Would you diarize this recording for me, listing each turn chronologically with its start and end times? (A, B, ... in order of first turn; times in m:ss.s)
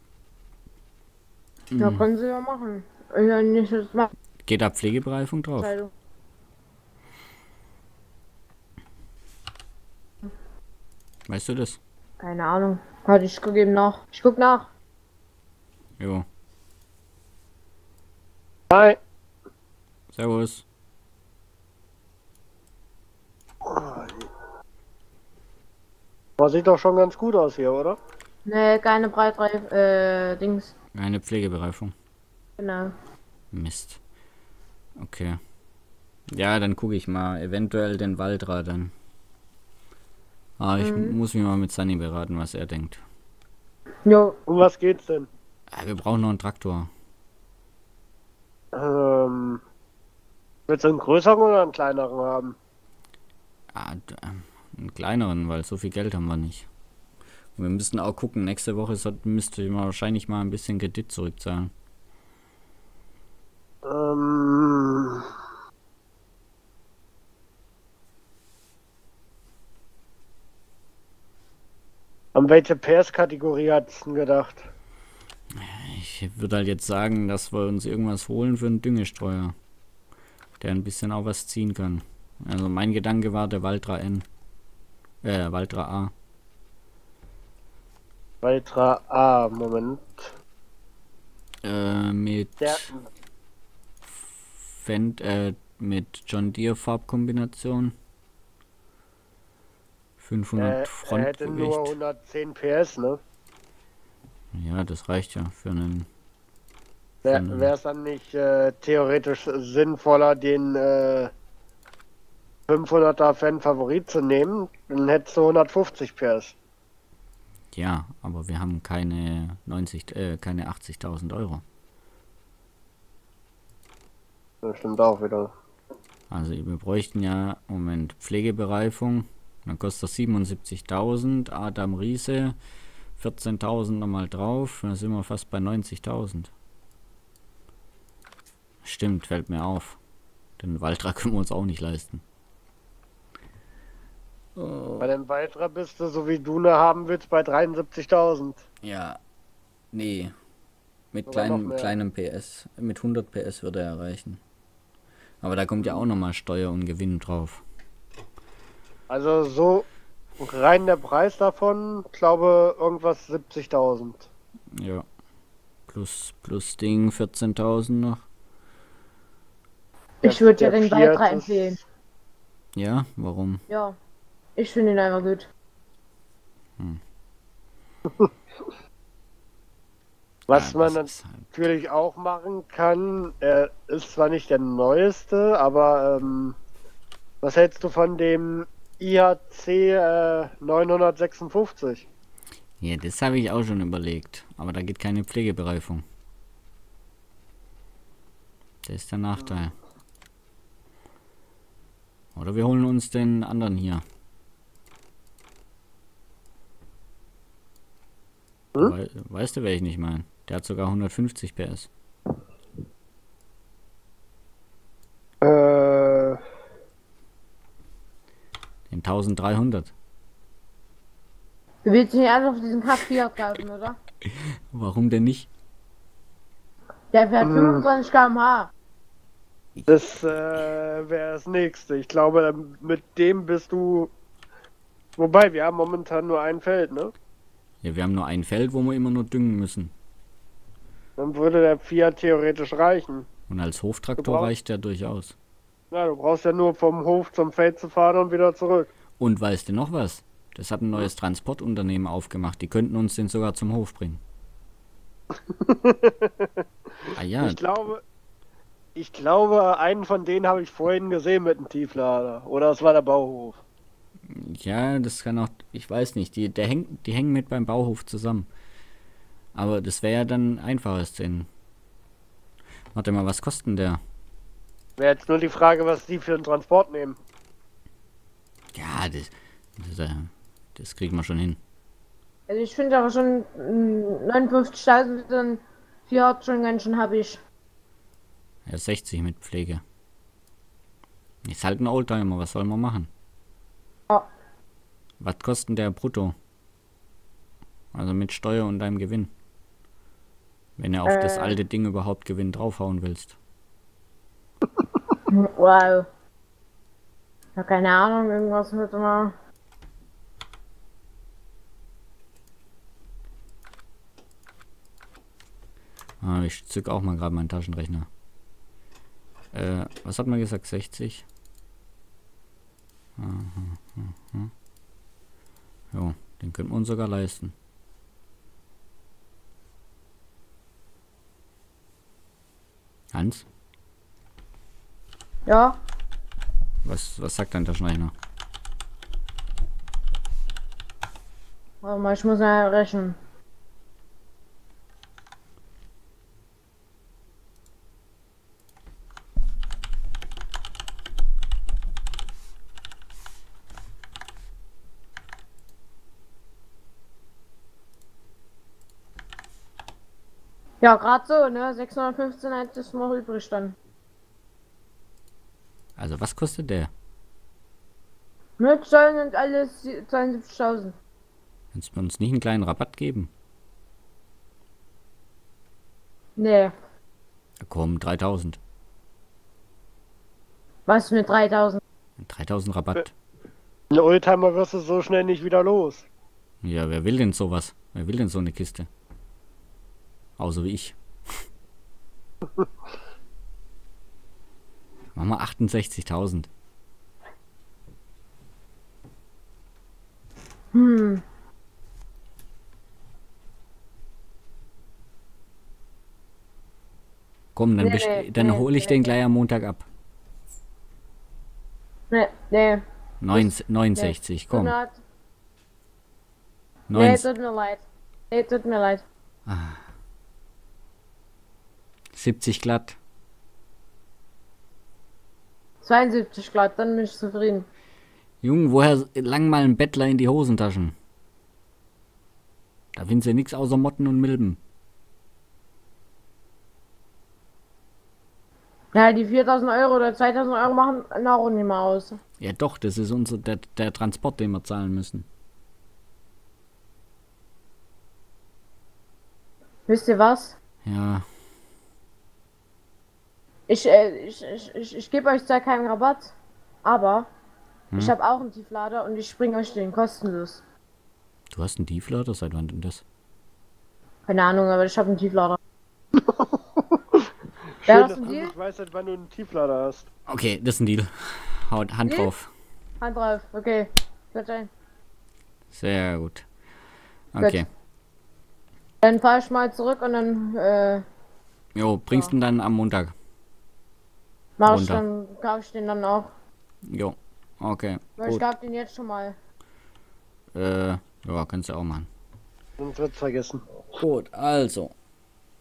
0:01.7-0:02.1 A
0:01.8-0:04.1 B
0:04.4-0:05.7 A
0:05.6-0:05.9 B
0:11.3-0:11.8 A
0:12.2-0:14.7 B
0:16.0-0:16.2 A
0:18.7-0:19.0 C
0:20.1-0:20.6 A
0:23.6-0:24.3 C
0:26.4-0:28.0 C
0:28.5-0:30.7 B
0:31.0-0:31.9 A
0:32.6-0:32.9 B
0:33.5-0:34.0 A
0:35.0-0:35.4 A
0:36.3-0:38.9 A
0:40.6-0:43.0 A
0:40.8-0:41.2 B
0:44.0-0:44.4 B
0:44.5-0:45.3 C
0:45.7-0:46.9 A
0:48.7-0:49.6 C
0:50.7-0:52.6 C
0:53.7-0:56.7 A
0:57.6-1:01.7 A
1:03.8-1:05.3 C
1:12.4-1:14.7 C
1:15.6-1:19.5 A
1:20.6-1:24.3 A
1:25.2-1:26.1 A
1:28.4-1:30.3 C
1:31.6-1:32.9 A
1:32.6-1:33.1 C
1:34.2-1:38.0 A
1:40.2-1:41.9 A
1:40.6-1:43.2 C
1:44.5-1:46.1 A
1:47.2-1:47.7 A
1:47.2-1:51.3 C
1:52.7-1:56.5 C
1:57.7-2:01.6 A
2:04.6-2:05.5 C
2:06.3-2:12.6 A
2:13.2-2:16.5 A
2:18.8-2:20.0 A
2:20.6-2:22.2 A
2:24.6-2:25.1 A
2:25.0-2:28.6 C
2:28.8-2:29.2 A
2:29.9-2:30.4 A
2:31.1-2:34.4 A
2:31.3-2:32.0 C
2:35.4-2:37.6 A
2:35.8-2:36.0 C
2:39.1-2:39.8 C
2:40.4-2:44.3 C
2:44.7-2:45.0 A
2:45.9-2:48.3 A
2:50.2-2:51.8 B
2:50.2-2:51.8 C
2:52.8-2:53.6 A
2:53.7-2:54.0 B
2:54.6-2:55.5 B
3:00.5-3:01.4 A
3:00.5-3:06.6 C
3:07.4-3:12.1 C
3:12.8-3:16.0 A
3:18.8-3:19.8 A
3:22.4-3:24.0 A
3:28.8-3:31.9 A
3:35.4-3:36.4 C
3:38.9-3:39.9 A
3:41.8-3:44.0 B
3:44.2-3:45.5 A
3:47.1-3:48.7 B
3:47.4-3:47.9 C
3:49.9-3:54.1 C
3:55.2-3:57.1 C
3:57.8-3:59.9 A
4:01.2-4:03.3 C
4:03.5-4:05.4 A
4:04.2-4:04.5 C
4:05.9-4:08.9 C
4:09.2-4:14.2 A
4:15.5-4:18.0 C
4:17.2-4:17.6 A
4:19.0-4:23.6 C
4:24.3-4:28.5 A
4:29.5-4:31.5 A
4:32.9-4:34.0 A
4:35.0-4:37.2 C
4:38.7-4:41.6 A
4:42.5-4:47.4 B
4:48.7-4:49.8 A
4:51.4-4:53.1 A
4:55.2-4:56.4 A
4:57.9-4:59.3 A
5:00.8-5:03.4 A
5:01.0-5:01.6 B
5:05.3-5:06.1 B
5:07.6-5:09.3 B
5:16.2-5:18.1 A
5:19.5-5:21.3 A
5:23.2-5:24.5 A
5:25.9-5:27.6 A
5:33.1-5:33.4 A
5:35.5-5:35.8 B
5:36.8-5:38.1 A
5:41.8-5:43.2 B
6:00.8-6:03.8 B
6:06.0-6:06.9 A
6:08.6-6:11.0 B
6:11.7-6:13.3 A
6:16.4-6:16.7 B
6:17.6-6:18.6 A
6:20.9-6:21.8 B
6:22.2-6:23.1 A
6:23.9-6:26.1 C
6:26.6-6:28.9 A
6:30.4-6:31.0 A
6:35.2-6:36.5 A
6:40.7-6:41.2 B
6:47.6-6:49.8 A
6:47.8-6:49.1 B
6:52.1-6:55.0 B
6:53.2-6:54.8 A
6:56.9-6:57.3 A
6:56.9-6:59.0 B
6:59.5-6:59.8 A
7:02.1-7:03.0 A
7:05.8-7:07.7 B
7:08.4-7:10.9 A
7:13.0-7:14.6 A
7:18.9-7:22.2 B
7:22.4-7:25.3 A
7:29.9-7:30.6 B
7:30.8-7:31.2 A
7:33.7-7:36.3 B
7:36.8-7:37.3 B
7:38.0-7:40.6 B
7:41.5-7:43.0 A
7:44.3-7:45.6 B
7:46.2-7:47.2 C
7:47.8-7:50.0 C
7:47.9-7:48.5 B
7:50.3-7:52.5 A
7:53.0-7:54.7 B
7:55.7-7:56.5 A
7:57.3-7:57.7 A
7:59.0-8:01.0 B
8:01.8-8:03.1 A
8:04.6-8:06.3 B
8:04.6-8:05.0 A
8:06.9-8:08.4 A
8:08.2-8:09.4 B
8:10.6-8:12.1 A
8:12.8-8:13.6 C
8:14.0-8:14.9 A